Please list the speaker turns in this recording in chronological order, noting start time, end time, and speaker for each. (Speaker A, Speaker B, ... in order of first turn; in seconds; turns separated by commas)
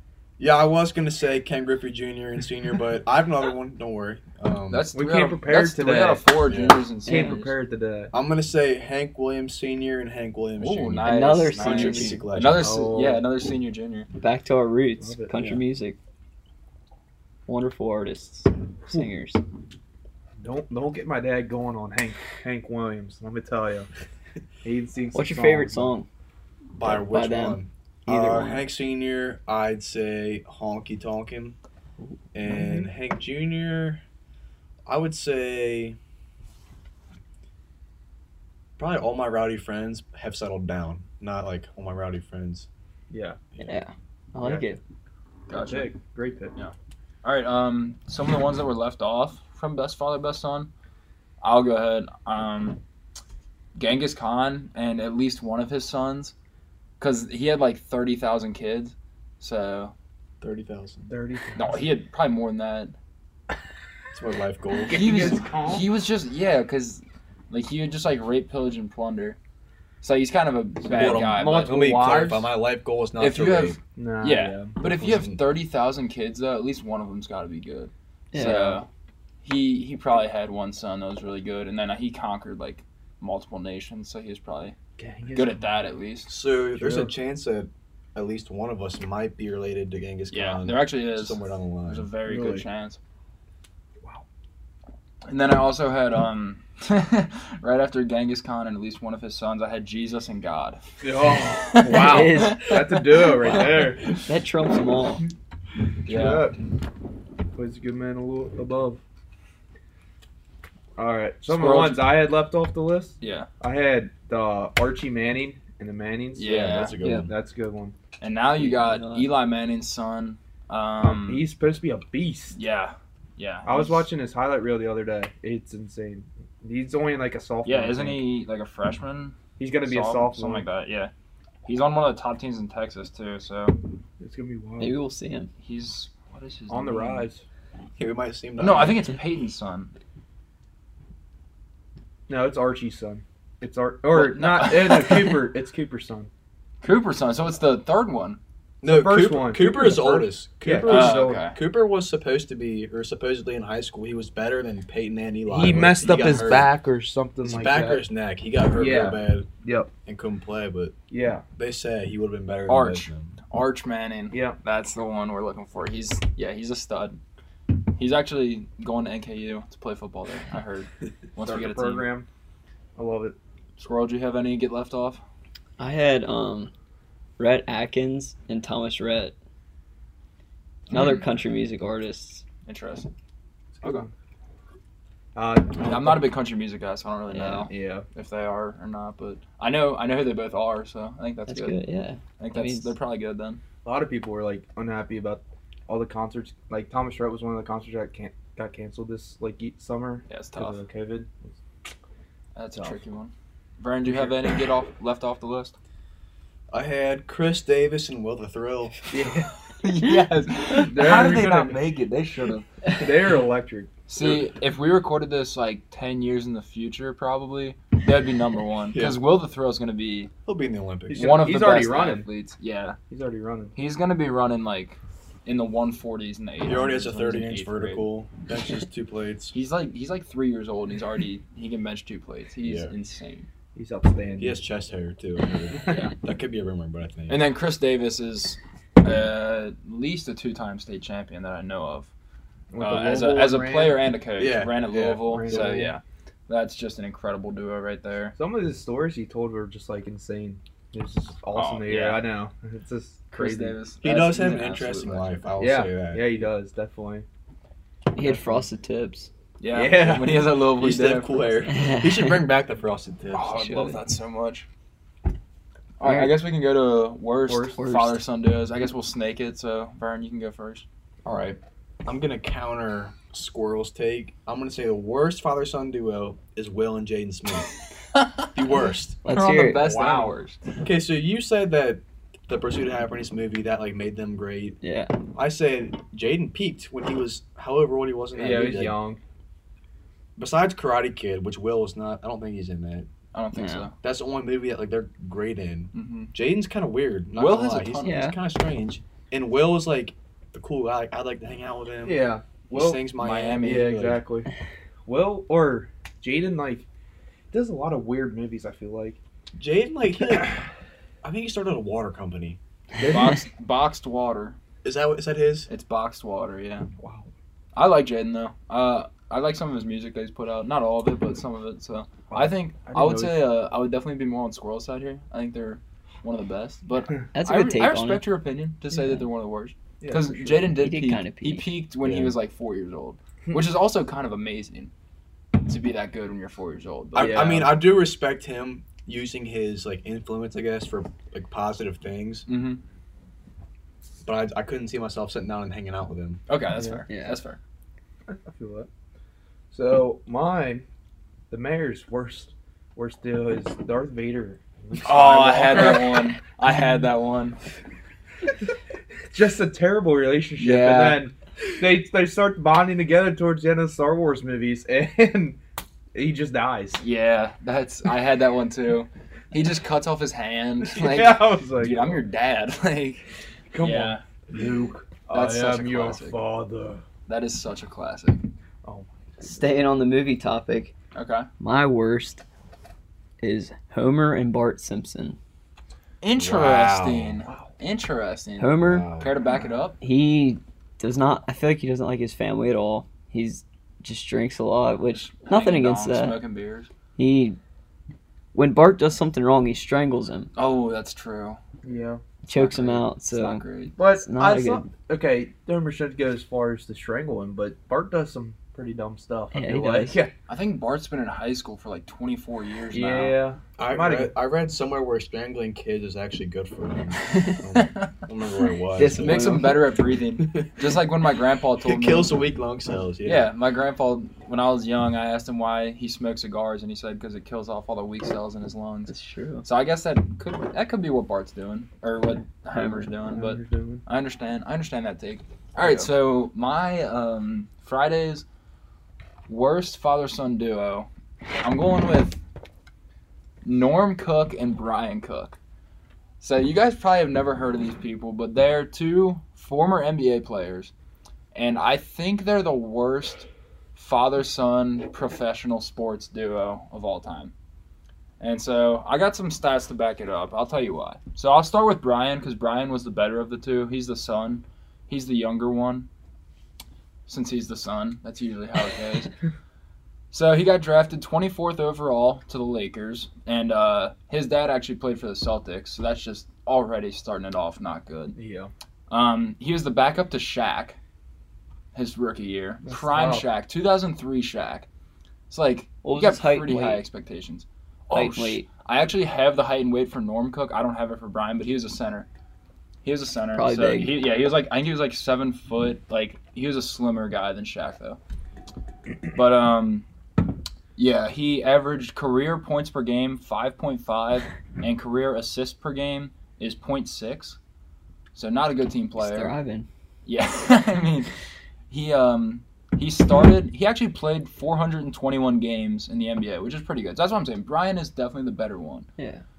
Speaker A: 0.4-4.9, Speaker B: 4.7-7.5, Speaker C: 4.9-6.3, Speaker A: 6.4-6.8, Speaker C: 7.0-8.1, Speaker D: 7.1-7.3, Speaker A: 8.1-12.8, Speaker B: 10.6-14.1, Speaker D: 11.0-12.2, Speaker C: 12.6-13.2, Speaker D: 14.2-16.0, Speaker C: 15.0-15.3, Speaker D: 17.5-19.4, Speaker C: 20.4-23.9, Speaker C: 24.6-25.9, Speaker D: 25.1-26.1, Speaker A: 26.8-31.6, Speaker D: 26.9-28.7, Speaker A: 32.3-34.0, Speaker C: 32.5-32.9, Speaker A: 34.9-36.0, Speaker A: 38.8-42.7, Speaker C: 43.1-43.4, Speaker D: 43.6-44.8, Speaker C: 44.4-44.7, Speaker B: 45.5-46.0, Speaker C: 45.5-46.5, Speaker B: 47.2-50.7, Speaker B: 51.4-52.8, Speaker B: 53.8-56.4, Speaker B: 57.0-59.9, Speaker A: 60.4-61.1, Speaker C: 61.1-61.7, Speaker B: 61.6-63.0, Speaker A: 64.1-65.0, Speaker C: 64.8-65.9, Speaker B: 64.9-69.4, Speaker B: 70.0-71.8, Speaker C: 70.8-72.5, Speaker A: 70.8-73.8, Speaker B: 73.2-78.9, Speaker C: 74.0-74.8, Speaker A: 74.8-75.4, Speaker D: 78.3-78.8, Speaker B: 79.4-84.8, Speaker C: 85.0-85.9, Speaker B: 85.3-86.3, Speaker A: 86.3-92.1, Speaker C: 86.8-87.1, Speaker B: 90.3-93.0, Speaker C: 92.2-92.7, Speaker B: 95.3-100.8, Speaker C: 101.0-104.0, Speaker B: 101.4-102.7, Speaker D: 101.9-103.2, Speaker D: 104.2-105.2, Speaker B: 106.1-106.5, Speaker C: 106.1-106.6, Speaker C: 107.5-109.0, Speaker C: 111.0-118.0, Speaker B: 111.5-112.2, Speaker B: 113.2-113.5, Speaker B: 116.4-117.0, Speaker A: 116.4-117.3, Speaker D: 117.0-117.3, Speaker B: 118.2-121.5, Speaker D: 118.6-119.3, Speaker C: 121.0-122.6, Speaker B: 122.5-124.0, Speaker C: 123.7-128.3, Speaker B: 127.7-131.1, Speaker C: 129.6-130.7, Speaker B: 131.7-133.8, Speaker C: 134.2-135.0, Speaker D: 134.8-135.5, Speaker B: 135.6-137.3, Speaker C: 136.7-137.4, Speaker A: 138.0-139.1, Speaker B: 138.6-139.9, Speaker C: 142.3-146.3, Speaker B: 144.1-145.5, Speaker B: 146.8-148.4, Speaker A: 148.8-156.7, Speaker C: 148.8-151.5, Speaker B: 150.9-151.6, Speaker C: 155.5-158.1, Speaker B: 156.0-156.5, Speaker A: 157.4-159.5, Speaker C: 158.7-159.9, Speaker A: 160.1-160.9, Speaker C: 161.1-161.4, Speaker A: 161.6-163.3, Speaker B: 162.7-167.2, Speaker C: 164.3-164.6, Speaker B: 168.0-172.1, Speaker C: 171.4-172.3, Speaker C: 173.0-173.4, Speaker B: 173.8-175.2, Speaker D: 175.8-176.7, Speaker D: 177.4-179.3, Speaker D: 180.9-182.4, Speaker B: 180.9-181.2, Speaker B: 182.7-183.1, Speaker C: 183.8-184.1, Speaker C: 185.3-186.3, Speaker B: 185.8-191.8, Speaker D: 187.3-187.7, Speaker C: 187.7-188.1, Speaker D: 191.5-192.9, Speaker B: 192.4-193.6, Speaker C: 193.8-201.6, Speaker B: 200.3-200.8, Speaker B: 202.6-205.8, Speaker C: 204.1-204.4, Speaker A: 206.7-209.0, Speaker C: 209.1-209.5, Speaker B: 209.8-212.7, Speaker C: 210.8-211.8, Speaker C: 212.9-213.9, Speaker B: 214.1-220.3, Speaker A: 220.5-221.3, Speaker C: 221.1-222.3, Speaker B: 221.1-223.0, Speaker C: 223.1-223.7, Speaker B: 223.8-228.1, Speaker A: 226.6-229.6, Speaker B: 229.5-233.5, Speaker A: 232.6-232.9, Speaker C: 233.8-234.6, Speaker A: 234.4-237.5, Speaker B: 235.9-236.1, Speaker B: 237.3-242.1, Speaker C: 242.7-244.0, Speaker B: 242.8-248.4, Speaker A: 244.4-245.9, Speaker C: 245.3-245.9, Speaker C: 248.4-253.8, Speaker B: 251.5-252.2, Speaker B: 253.3-255.4, Speaker A: 254.0-256.2, Speaker C: 255.6-257.3, Speaker D: 258.1-259.3, Speaker C: 258.2-258.5, Speaker B: 259.6-261.6, Speaker C: 259.7-260.6, Speaker A: 260.8-263.9, Speaker D: 261.7-262.5, Speaker B: 263.3-264.7, Speaker B: 266.0-270.9, Speaker D: 266.0-266.4, Speaker C: 267.5-267.8, Speaker D: 267.8-268.2, Speaker A: 271.2-277.7, Speaker A: 278.6-279.2, Speaker D: 279.2-279.8, Speaker B: 279.3-280.8, Speaker C: 279.8-280.4, Speaker A: 280.8-284.8, Speaker D: 284.8-285.2, Speaker A: 285.3-289.0, Speaker C: 288.3-289.2, Speaker A: 290.4-293.1, Speaker B: 293.3-293.9, Speaker D: 293.6-293.9, Speaker A: 294.0-304.2, Speaker B: 295.9-296.3, Speaker B: 297.3-298.3, Speaker D: 298.0-298.4, Speaker C: 302.1-303.1, Speaker B: 303.2-304.0, Speaker C: 303.6-304.5, Speaker C: 305.1-306.9, Speaker C: 307.5-309.2, Speaker A: 309.6-310.6, Speaker A: 311.2-312.6, Speaker C: 313.0-313.3, Speaker B: 313.1-314.6, Speaker A: 314.8-315.7, Speaker B: 315.7-316.9, Speaker C: 317.0-317.3, Speaker B: 317.7-334.9, Speaker C: 322.3-323.5, Speaker D: 327.3-328.3, Speaker C: 330.0-330.8, Speaker D: 330.7-331.7, Speaker A: 332.0-332.4, Speaker B: 335.5-337.8, Speaker A: 337.1-342.5, Speaker C: 337.2-337.6, Speaker B: 342.5-342.8, Speaker A: 344.2-346.4, Speaker B: 346.5-347.6, Speaker C: 346.8-347.0, Speaker D: 347.1-347.4, Speaker C: 348.3-348.9, Speaker C: 349.7-350.8, Speaker C: 351.5-356.3, Speaker B: 355.0-357.6, Speaker C: 359.3-365.6, Speaker B: 360.6-361.2, Speaker C: 366.1-367.0, Speaker B: 367.0-373.2, Speaker C: 370.8-372.2, Speaker C: 373.7-377.0, Speaker B: 373.8-374.2, Speaker B: 375.3-376.4, Speaker B: 377.3-378.5, Speaker C: 378.8-379.6, Speaker D: 379.4-380.9, Speaker B: 381.1-381.5, Speaker D: 381.6-382.4, Speaker D: 383.4-385.4, Speaker B: 386.2-390.0, Speaker A: 386.4-387.4, Speaker D: 388.6-389.1, Speaker A: 388.8-389.4, Speaker D: 390.0-396.4, Speaker B: 395.1-396.9, Speaker D: 397.2-397.6, Speaker D: 398.5-400.5, Speaker B: 400.6-401.6, Speaker C: 401.8-402.2, Speaker D: 402.5-404.9, Speaker B: 402.5-404.0, Speaker C: 404.0-410.3, Speaker D: 409.5-410.2, Speaker B: 410.5-413.4, Speaker C: 412.9-414.3, Speaker A: 413.8-419.8, Speaker B: 417.8-418.1, Speaker D: 419.0-419.8, Speaker B: 419.0-422.4, Speaker A: 420.5-420.7, Speaker A: 421.8-423.5, Speaker B: 423.2-438.4, Speaker D: 429.1-429.6, Speaker D: 432.7-433.1, Speaker C: 433.3-434.0, Speaker C: 435.8-436.1, Speaker B: 439.5-441.1, Speaker B: 441.6-442.4, Speaker B: 443.6-445.6, Speaker B: 446.4-450.9, Speaker B: 451.5-457.5, Speaker B: 458.4-466.1, Speaker B: 467.3-469.3, Speaker B: 470.3-478.4, Speaker C: 478.4-478.7, Speaker B: 479.1-481.0, Speaker B: 481.9-484.9, Speaker C: 482.8-483.5, Speaker B: 485.5-492.3, Speaker D: 486.0-487.0, Speaker D: 488.1-488.7, Speaker B: 493.0-498.2, Speaker D: 493.5-494.2, Speaker B: 499.3-500.1, Speaker B: 501.0-507.6, Speaker B: 508.3-509.6, Speaker D: 509.2-509.9, Speaker B: 510.3-511.3, Speaker B: 511.9-519.1, Speaker D: 519.2-519.4